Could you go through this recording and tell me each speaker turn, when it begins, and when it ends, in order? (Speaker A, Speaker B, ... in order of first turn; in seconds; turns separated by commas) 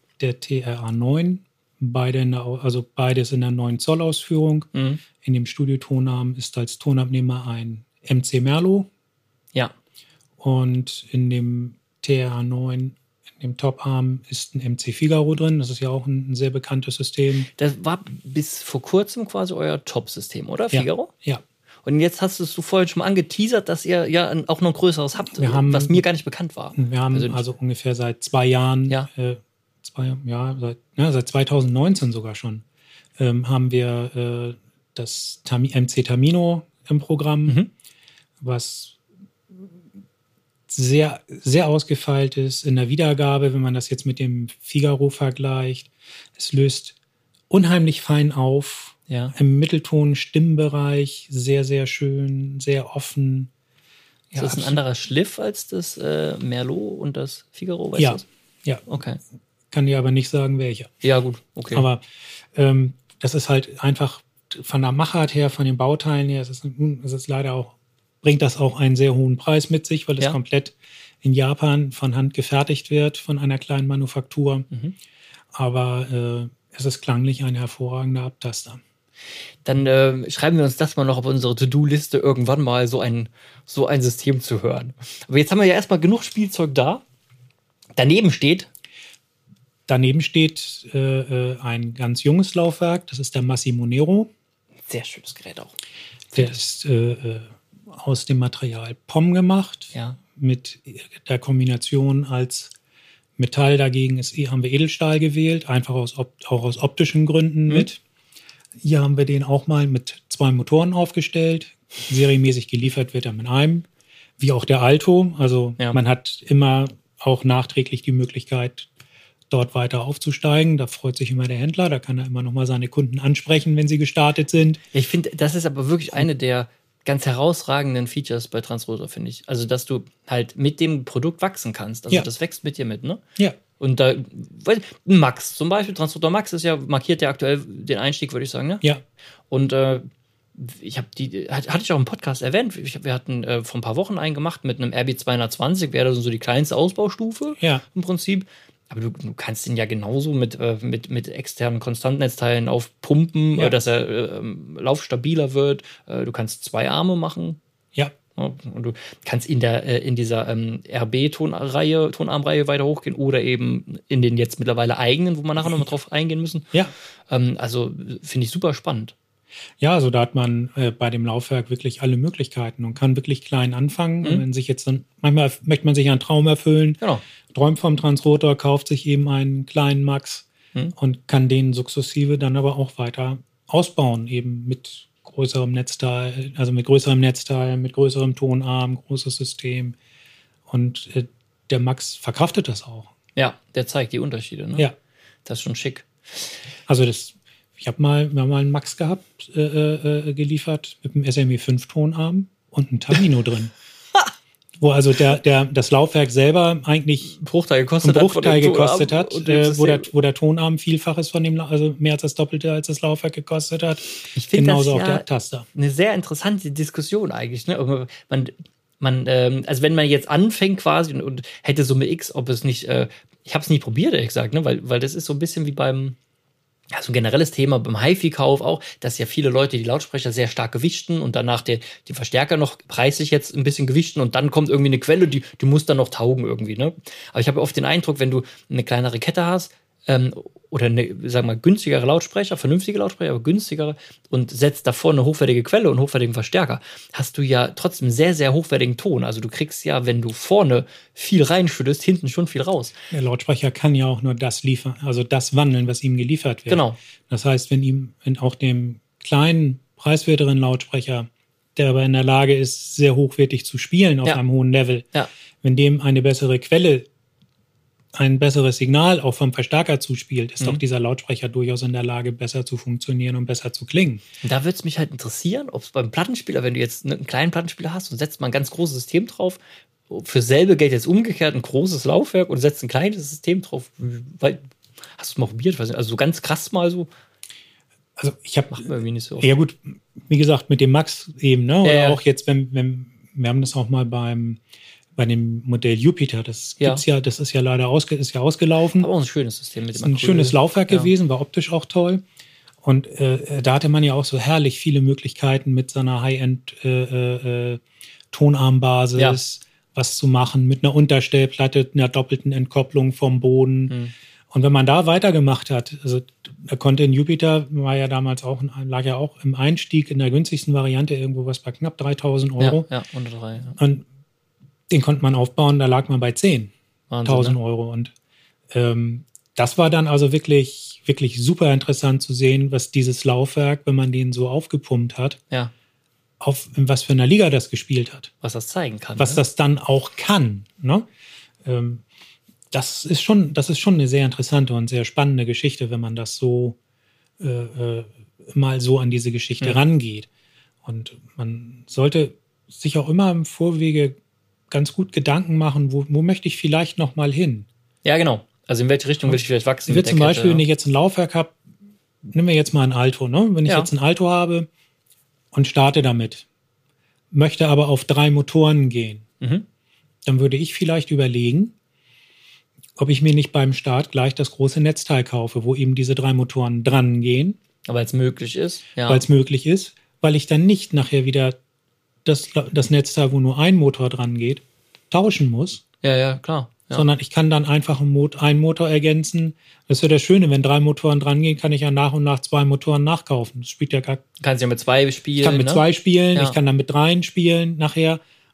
Speaker A: 0.2-8.9, Speaker B: 4.7-5.0, Speaker A: 10.4-17.5, Speaker B: 17.6-21.1, Speaker A: 20.7-21.4, Speaker B: 21.8-27.4, Speaker A: 25.3-26.0, Speaker A: 26.8-32.6, Speaker A: 33.2-37.6, Speaker A: 38.4-39.0, Speaker A: 40.7-47.0, Speaker A: 47.5-53.5, Speaker B: 49.1-49.3, Speaker B: 54.3-58.2, Speaker A: 54.3-54.8, Speaker A: 58.0-58.8, Speaker B: 58.9-59.2, Speaker A: 59.7-60.9, Speaker B: 61.0-61.9, Speaker A: 61.7-62.0, Speaker A: 62.5-74.7, Speaker A: 75.5-78.8, Speaker B: 79.6-87.0, Speaker B: 88.0-88.7, Speaker A: 89.9-94.3, Speaker B: 94.9-95.7, Speaker B: 96.3-96.6, Speaker A: 96.3-102.7, Speaker A: 103.4-108.0, Speaker A: 108.8-113.9, Speaker A: 114.4-118.9, Speaker A: 119.5-124.8, Speaker B: 124.9-133.2, Speaker B: 133.8-138.8, Speaker B: 139.5-157.6, Speaker B: 158.3-166.7, Speaker B: 167.3-169.1, Speaker A: 169.8-189.9, Speaker A: 190.7-193.1, Speaker B: 193.3-194.9, Speaker B: 195.4-196.1, Speaker A: 196.9-203.7, Speaker A: 204.8-207.4, Speaker B: 207.3-210.1, Speaker A: 208.0-215.7, Speaker B: 214.3-226.2, Speaker B: 226.9-252.9, Speaker A: 253.1-265.1, Speaker B: 256.7-256.9, Speaker A: 265.6-267.1, Speaker A: 268.1-274.2, Speaker B: 274.4-279.6, Speaker B: 280.1-287.1, Speaker A: 288.2-288.9, Speaker B: 288.7-289.5, Speaker A: 289.4-294.6, Speaker B: 291.8-292.2, Speaker A: 295.1-299.1, Speaker B: 299.0-301.1, Speaker A: 299.9-302.2, Speaker A: 302.8-307.8, Speaker A: 308.3-313.9, Speaker A: 314.5-322.9, Speaker B: 322.6-323.8, Speaker A: 323.8-324.0, Speaker A: 324.9-326.7, Speaker B: 327.1-327.6, Speaker A: 327.2-328.1, Speaker A: 328.7-335.4, Speaker A: 336.4-338.3, Speaker B: 338.4-339.4, Speaker A: 339.2-341.1, Speaker A: 341.6-342.0, Speaker A: 342.7-346.8, Speaker A: 347.4-350.3, Speaker A: 350.8-354.1, Speaker A: 354.7-357.7, Speaker B: 358.0-360.6, Speaker A: 359.2-361.6, Speaker A: 362.2-364.7, Speaker A: 365.5-366.4, Speaker A: 367.3-369.2, Speaker B: 369.4-369.6, Speaker A: 370.2-371.7, Speaker A: 372.9-377.6, Speaker B: 377.8-379.2, Speaker A: 379.1-381.6, Speaker A: 382.2-385.8, Speaker B: 386.0-387.1, Speaker A: 386.9-394.2, Speaker B: 394.4-396.6, Speaker A: 395.4-398.2